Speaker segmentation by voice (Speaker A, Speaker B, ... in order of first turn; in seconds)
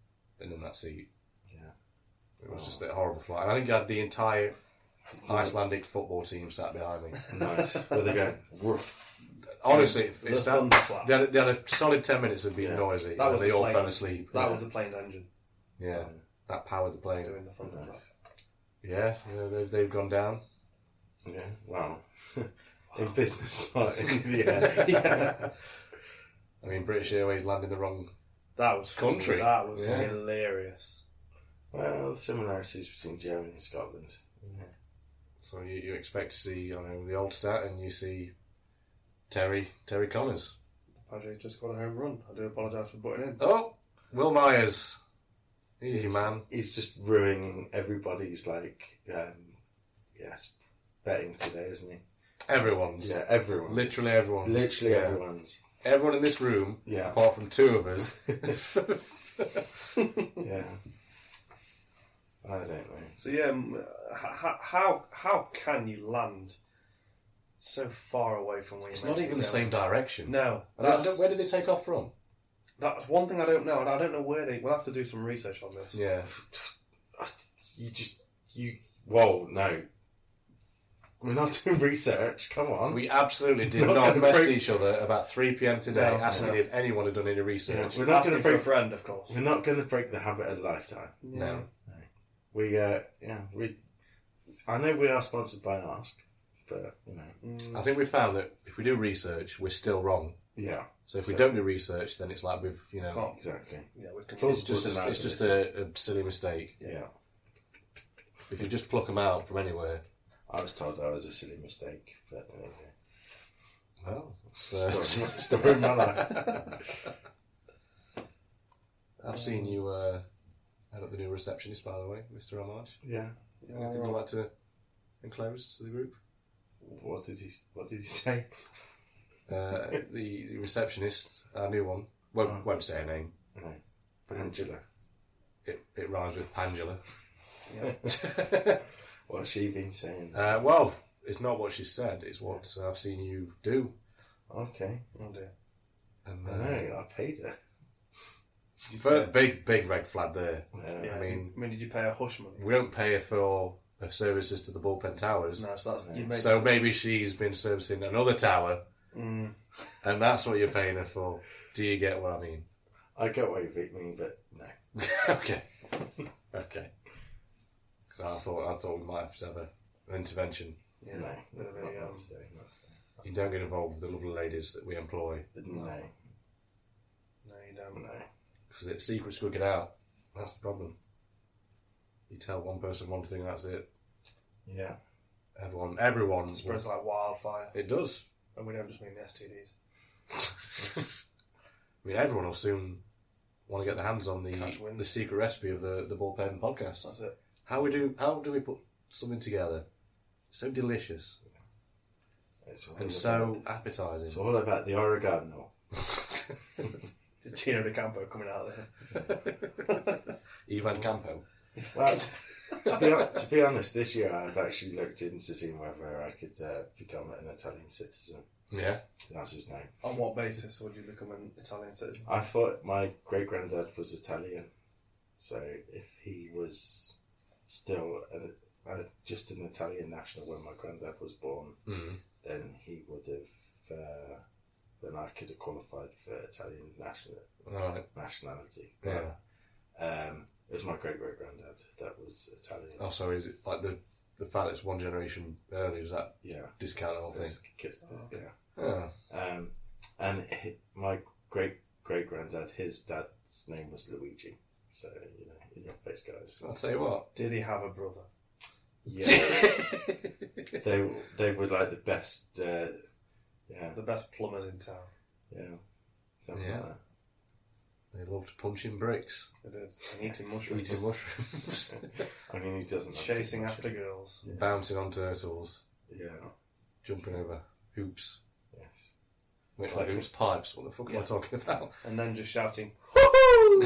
Speaker A: 0.4-1.1, 2.4-4.5, 5.2-7.2, 9.6-14.6, 15.8-17.4, 18.8-20.4, 23.8-24.8, 26.6-28.1, 28.9-30.2, 35.4-38.3, 39.3-40.5, 43.4-45.0, 45.8-46.4, 52.5-55.2, 55.8-59.7, 68.9-72.1, 75.9-76.3, 82.9-88.0, 91.3-91.6, 97.7-100.4, 101.1-103.2, 104.4-106.7, 108.5-110.0, 114.0-116.6, 119.2-120.2, 120.9-123.0, 123.7-124.5, 125.2-126.2, 129.5-133.3, 135.6-137.0, 138.0-138.8, 140.3-143.9, 146.2-146.8, 148.9-151.5, 152.6-155.6, 156.3-158.8, 160.0-162.7, 164.9-165.9, 166.5-166.9, 168.1-170.8, 173.2-175.5, 178.7-180.9, 182.3-183.9, 185.6-186.8, 187.7-188.2, 192.0-193.0, 193.7-197.0, 197.7-199.8, 200.5-201.4, 203.0-204.4, 210.7-211.4, 218.7-219.0, 231.8-232.2, 237.6-238.1, 239.0-239.3, 243.0-247.6, 248.8-249.1, 256.6-257.3, 266.5-266.8, 268.1-269.5, 270.6-272.1, 274.5-275.8, 277.0-278.4, 279.8-281.9
Speaker B: 2.5-2.8, 5.1-5.6, 7.3-9.3, 12.6-12.9, 15.9-16.2, 17.6-18.0, 21.2-25.5, 31.7-34.7, 45.9-49.6, 50.1-50.5, 51.0-52.0, 53.0-55.6, 56.9-57.2, 60.4-60.8, 62.4-63.2, 76.3-79.9, 81.2-84.7, 86.3-86.6, 87.7-91.2, 91.8-93.8, 94.7-97.3, 100.5-101.5, 103.4-103.9, 104.4-105.6, 106.8-107.1, 110.5-112.9, 114.7-116.8, 123.0-123.3, 126.8-128.7, 133.5-134.8, 139.3-140.6, 144.5-145.0, 146.4-147.6, 150.7-151.2, 163.1-164.8, 171.1-173.2, 175.5-176.1, 177.9-178.3, 184.7-185.0, 202.6-203.6, 204.3-205.7, 211.9-218.4, 219.3-219.9, 222.2-224.7, 225.4-227.1, 227.7-231.8, 232.4-234.4, 235.0-237.5, 238.1-239.3, 239.9-243.1, 246.4-246.7, 247.3-248.5, 249.3-256.6, 259.0-259.8, 260.8-263.0, 263.7-264.0, 265.5-265.8, 266.4-267.0, 272.5-273.9, 274.4-274.7, 276.1-276.5, 278.7-279.1, 279.9-280.3
Speaker C: 7.5-8.0, 9.7-11.1, 13.2-15.3, 17.2-18.1, 24.8-25.2, 28.6-31.0, 41.0-43.4, 63.2-66.6, 67.6-71.2, 72.8-76.0, 85.9-86.6, 88.0-89.4, 91.2-91.7, 97.4-97.8, 103.1-103.4, 103.9-104.7, 119.3-119.7, 123.6-124.2, 137.7-138.0, 145.1-145.5, 148.9-149.3, 151.0-152.6, 155.6-156.8, 159.1-159.5, 171.0-172.2, 177.4-178.0, 186.5-187.7, 188.6-189.7, 193.8-195.1, 197.0-197.3, 207.4-208.9, 209.8-210.2, 211.8-212.8, 220.0-222.3, 248.1-248.3, 257.3-258.3, 259.3-260.0, 263.9-265.1, 269.6-271.0, 273.1-274.4, 282.0-283.1